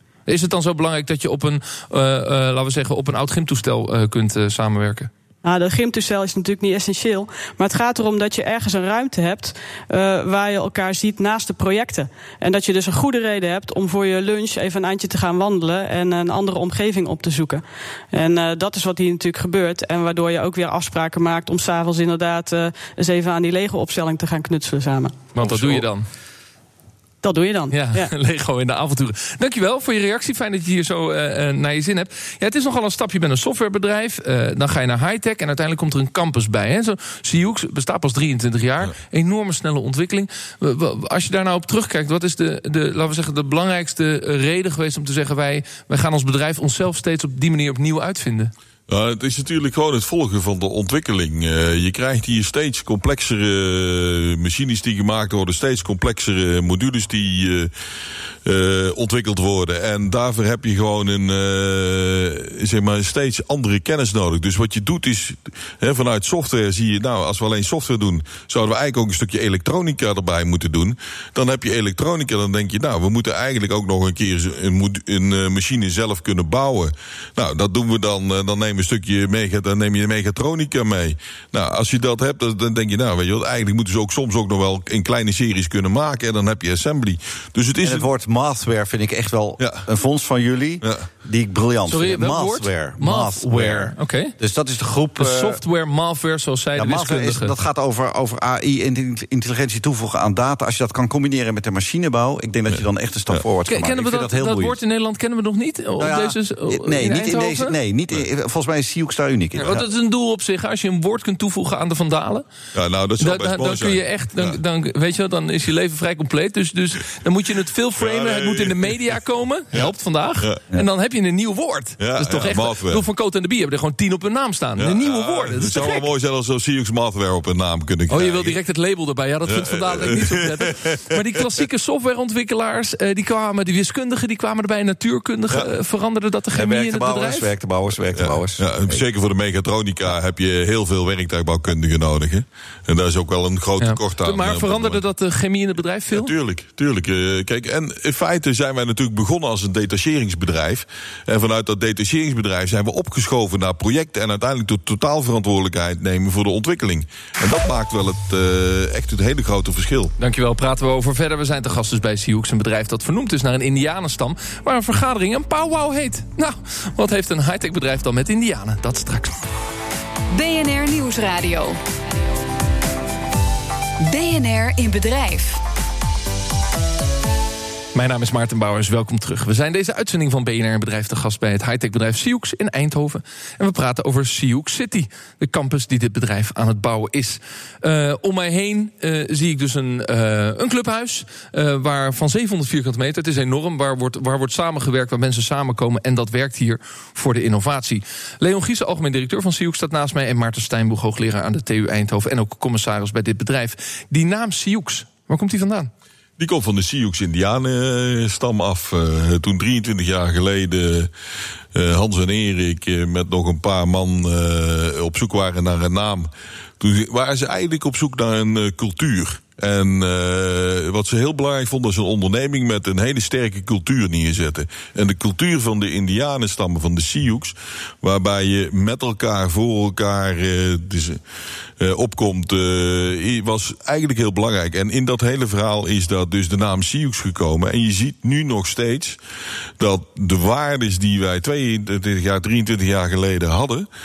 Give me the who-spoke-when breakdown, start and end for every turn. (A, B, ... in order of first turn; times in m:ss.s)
0:00.3-0:05.1 A
0:05.4-0:25.3 B
0:25.3-0:26.1 A
0:25.5-0:25.8 C
0:27.2-0:28.1 B
0:27.7-0:48.5 A
0:48.9-0:57.7 C
0:58.4-1:28.1 C
1:27.8-1:35.6 D
1:29.6-1:29.9 C
1:31.8-1:34.3 A
1:35.2-1:37.5 A
1:36.8-1:44.8 D
1:42.7-1:43.4 C
1:43.6-1:47.7 A
1:46.0-1:49.8 D
1:49.6-1:52.4 A
1:52.7-1:54.6 C
1:53.2-2:06.0 A
1:58.0-1:58.9 C
2:02.0-2:03.0 C
2:04.8-2:08.6 C
2:08.1-2:17.5 A
2:09.5-2:11.4 C
2:16.5-2:18.7 D
2:18.1-2:25.0 C
2:23.8-2:26.3 A
2:26.1-2:40.1 C
2:40.2-2:49.4 A
2:50.3-2:51.8 E
2:54.0-2:55.6 E
2:57.9-3:25.9 A
3:26.4-3:31.1 C
3:31.7-3:36.3 C
3:36.8-3:51.2 C
3:51.8-3:59.2 C
3:59.8-4:03.8 C